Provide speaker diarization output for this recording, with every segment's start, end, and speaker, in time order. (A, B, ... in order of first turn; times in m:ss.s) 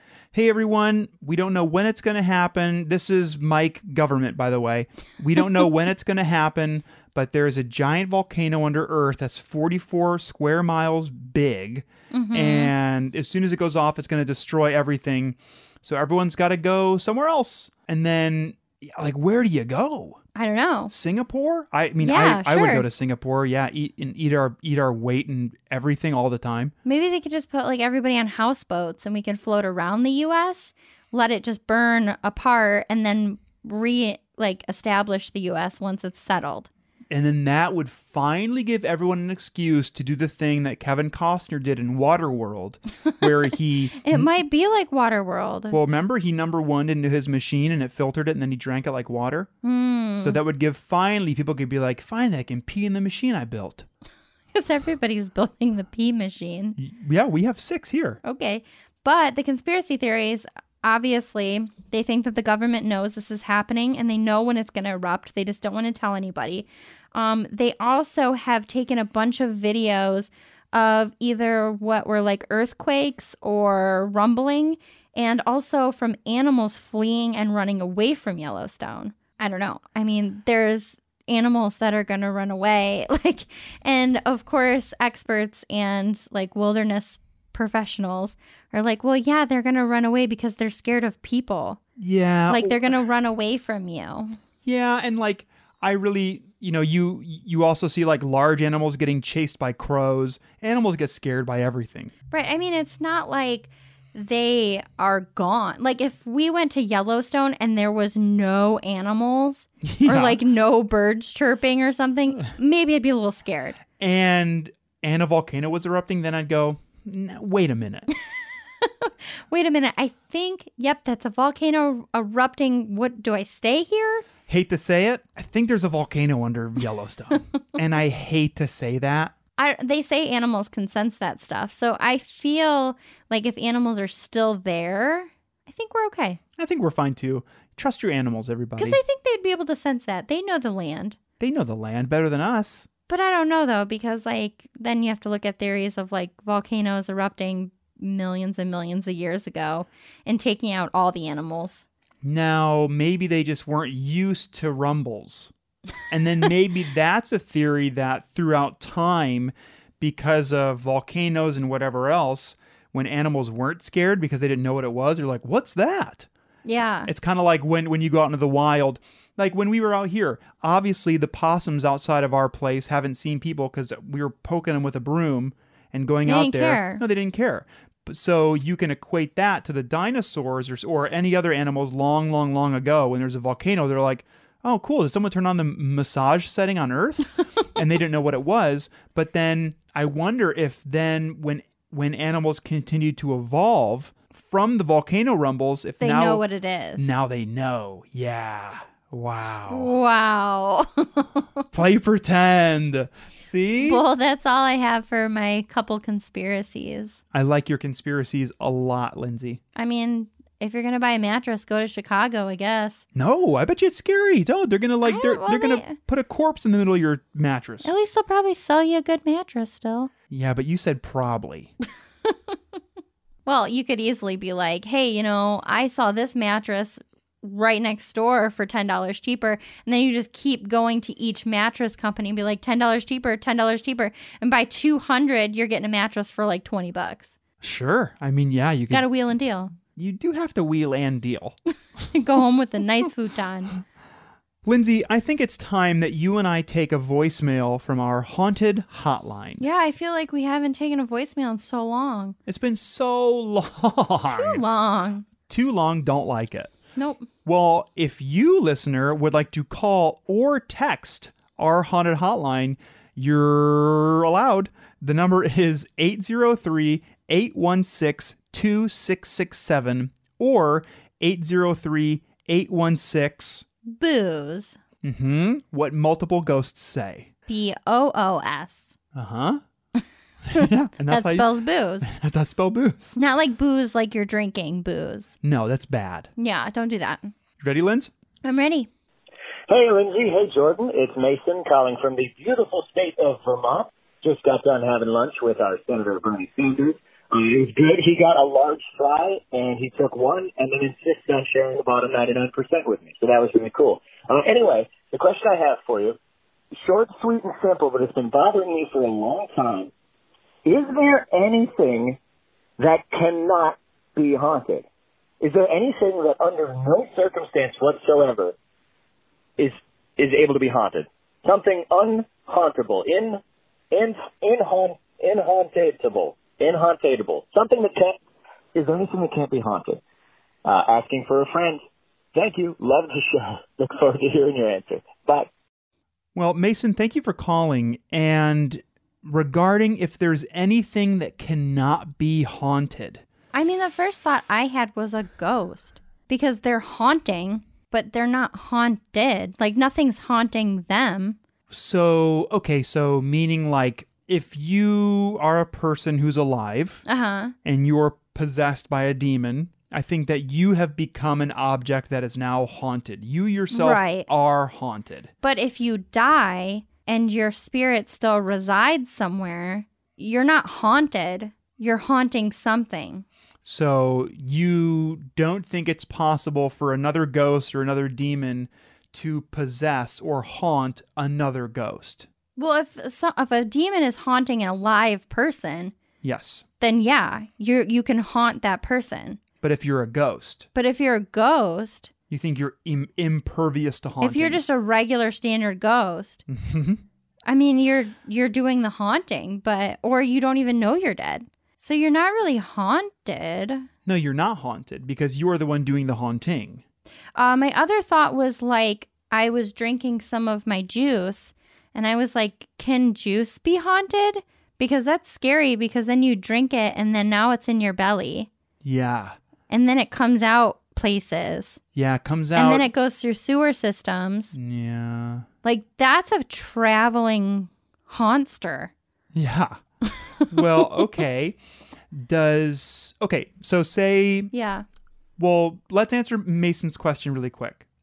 0:00.3-0:20.2 A
0:12.1-0:12.7 B
0:20.4-0:20.9 B
0:20.9-0:26.7 A
0:22.0-0:22.9 B
0:26.8-0:36.7 B
0:37.1-0:44.3 A
0:44.0-0:45.8 B
0:45.7-0:49.5 A
0:49.6-0:50.4 B
0:50.2-0:53.9 A
0:54.5-0:56.8 B
0:56.8-0:58.2 A
0:58.2-1:31.8 B
1:32.0-1:33.0 A
1:32.5-1:34.4 B
1:34.6-1:42.1 A
1:42.3-1:53.8 B
1:49.8-1:50.4 A
1:54.0-1:58.1 A
1:58.8-2:04.3 B
2:04.5-2:09.4 A
2:09.6-2:16.4 B
2:16.6-2:19.0 A
2:18.8-2:21.2 B
2:21.4-2:22.9 A
2:23.1-2:31.9 B
2:32.2-2:35.5 A
2:36.1-2:46.3 A
2:46.6-2:47.1 B
2:47.1-3:16.4 A
2:56.2-2:57.0 B
3:16.0-3:17.1 B
3:17.0-3:19.9 A
3:19.7-3:21.6 B
3:21.7-3:24.0 A
3:23.8-3:27.2 B
3:27.3-3:29.6 A
3:29.8-3:33.0 B
3:33.2-3:37.9 A
3:35.0-3:36.0 B
3:37.8-3:40.1 B
3:40.3-3:41.7 A
3:42.3-3:42.6 B
3:43.5-3:57.4 B
3:57.6-3:59.1 A
3:58.9-3:59.7 B
4:00.0-4:01.6 A
4:02.1-4:03.8 B
4:04.6-4:09.6 A
4:09.6-4:12.4 B
4:12.5-4:14.6 A
4:14.3-4:15.3 B
4:15.5-4:16.7 A
4:17.0-4:17.3 B
4:17.4-4:33.6 A
4:33.9-4:34.8 B
4:35.0-4:37.3 A
4:37.5-4:39.0 B
4:39.1-4:39.6 A
4:40.4-4:41.5 A
4:40.6-4:42.1 B
4:42.0-4:43.2 A
4:43.2-4:45.4 B
4:45.4-4:46.3 A
4:46.4-4:47.3 B
4:47.6-4:48.1 A
4:48.4-4:48.9 B
4:49.7-5:06.2 C
5:06.8-5:09.9 C
5:10.6-5:12.2 C
5:12.8-5:14.9 C
5:15.4-5:18.6 C
5:19.6-5:23.4 C
5:23.9-5:28.2 C
5:28.7-5:30.0 C
5:30.6-5:31.8 C
5:32.3-5:35.5 C
5:36.4-5:43.2 A
5:43.5-5:51.4 B
5:51.7-5:57.0 A
5:57.1-5:57.5 B
5:57.6-6:05.3 A
6:03.7-6:04.3 B
6:05.4-6:13.2 B
6:13.6-6:22.3 A
6:22.6-6:25.9 B
6:26.2-6:26.6 A
6:26.8-6:29.4 B
6:29.6-6:30.7 A
6:30.8-6:32.1 B
6:32.3-6:34.6 A
6:34.2-6:36.4 B
6:36.5-6:37.0 A
6:37.5-6:43.9 B
6:44.1-6:46.8 A
6:47.4-6:58.5 B
6:58.8-6:59.4 A
6:59.7-7:01.8 B
7:01.9-7:02.9 A
7:02.6-7:04.6 B
7:04.5-7:05.5 A
7:05.6-7:08.9 B
7:09.3-7:09.8 A
7:10.1-7:11.1 B
7:10.5-7:11.6 A
7:12.1-7:14.5 A
7:14.5-7:14.8 B
7:15.4-7:17.8 A